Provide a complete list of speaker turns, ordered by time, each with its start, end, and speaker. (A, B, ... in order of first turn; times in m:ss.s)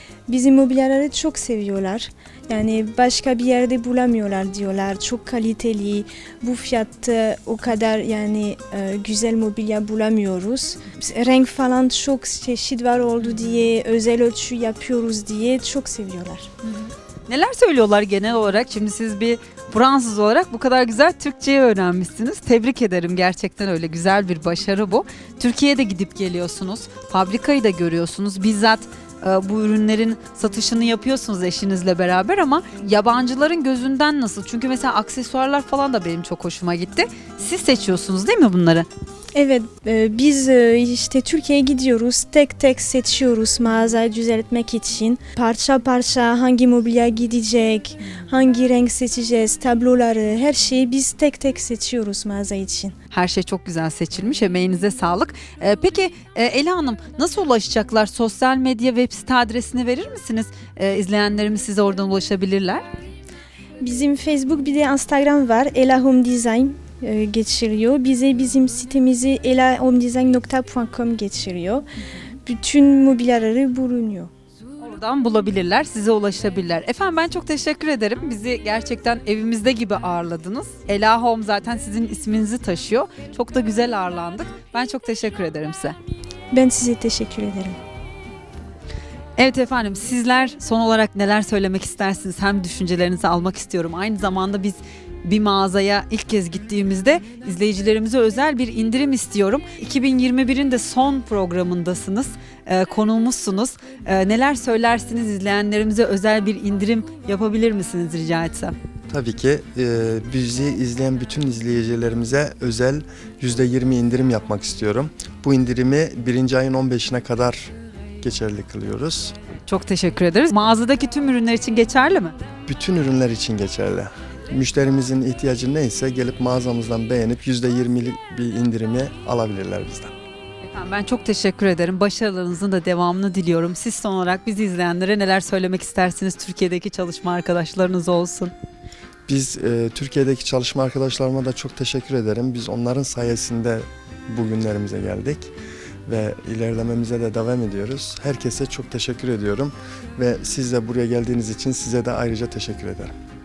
0:00.3-0:16.5 A
0:16.6-0:38.9 B
0:39.3-0:52.9 A
0:53.1-1:02.8 B
1:03.8-1:11.8 A
1:12.4-1:14.3 A
1:14.8-1:26.0 B
1:26.5-1:27.8 A
1:29.4-1:48.7 B
1:49.1-1:59.3 C
1:59.6-2:02.4 B
2:02.6-2:10.1 C
2:10.6-2:18.5 B
2:19.3-2:25.5 C
2:26.0-2:33.1 C